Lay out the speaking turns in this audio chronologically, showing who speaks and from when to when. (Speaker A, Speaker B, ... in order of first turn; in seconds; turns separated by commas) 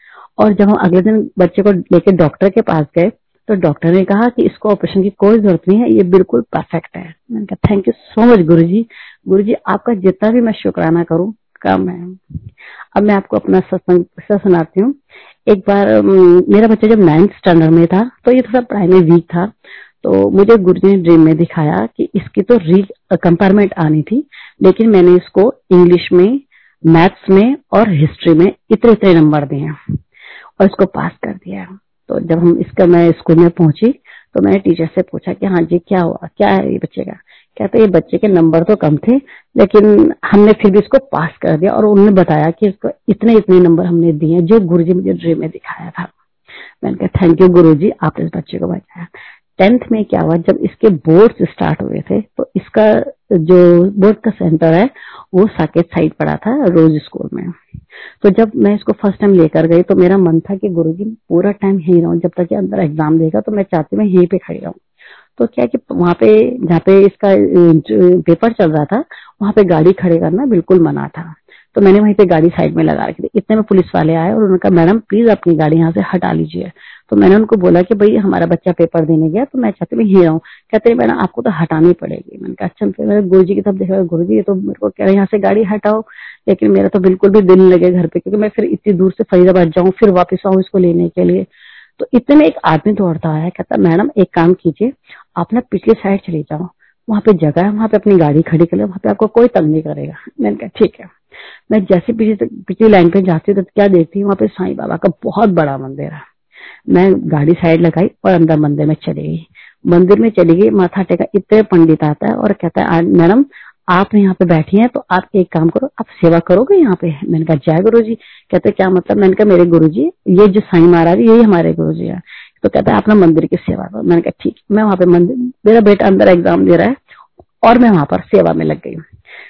Speaker A: 0.4-12.2, Speaker A: 12.9-14.9, Speaker A: 15.5-19.5, Speaker A: 20.0-29.8, Speaker A: 30.6-46.1, Speaker A: 46.8-57.5, Speaker A: 58.2-64.8, Speaker A: 65.4-91.5, Speaker A: 92.0-101.1, Speaker A: 101.7-106.2, Speaker A: 106.9-127.0, Speaker A: 127.6-129.0